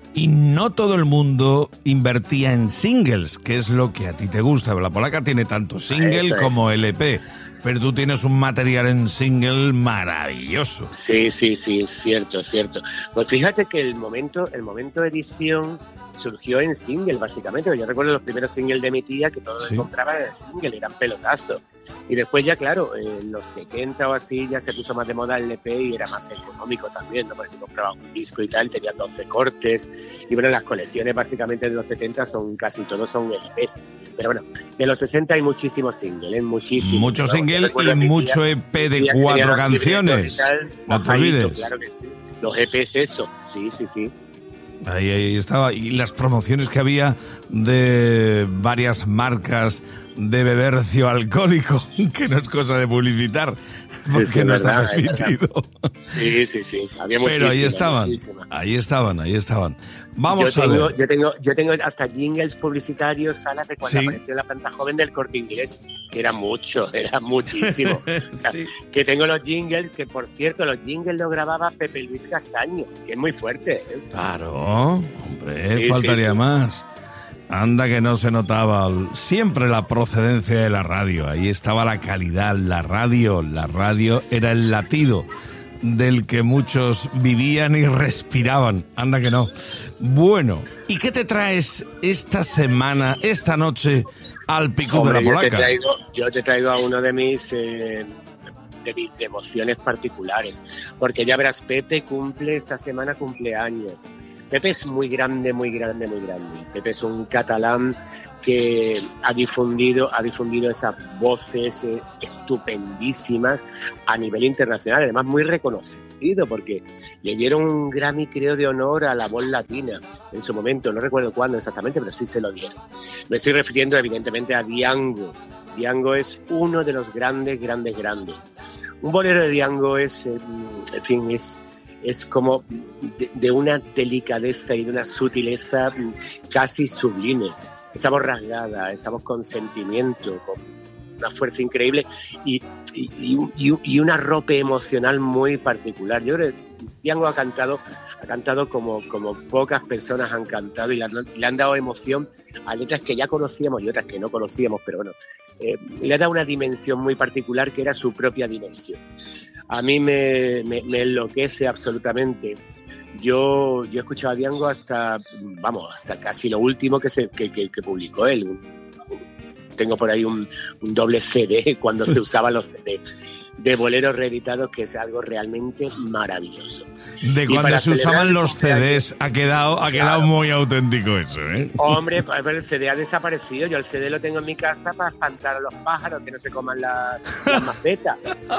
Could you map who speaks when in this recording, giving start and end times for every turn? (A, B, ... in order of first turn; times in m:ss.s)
0:00.2-0:10.9 A
0:05.9-0:06.6 B
0:10.9-0:44.1 B
0:19.6-0:19.9 A
0:36.8-0:41.7 A
0:44.8-0:55.7 A
0:54.1-0:55.3 B
0:56.0-0:58.5 B
0:57.2-1:00.9 A
1:00.3-1:14.0 B
1:03.8-1:04.2 A
1:07.6-1:08.7 A
1:14.1-1:16.9 A
1:15.7-1:16.4 B
1:17.5-1:25.3 A
1:25.8-1:35.7 A
1:34.9-1:38.1 B
1:38.8-2:08.4 B
2:09.0-2:20.6 B
2:21.2-2:39.0 B
2:39.7-2:42.6 B
2:43.1-2:48.6 B
2:49.8-2:53.0 B
2:53.6-2:56.9 B
2:57.2-3:02.0 A
2:57.5-2:59.0 B
2:59.9-3:00.3 B
3:01.8-3:08.2 B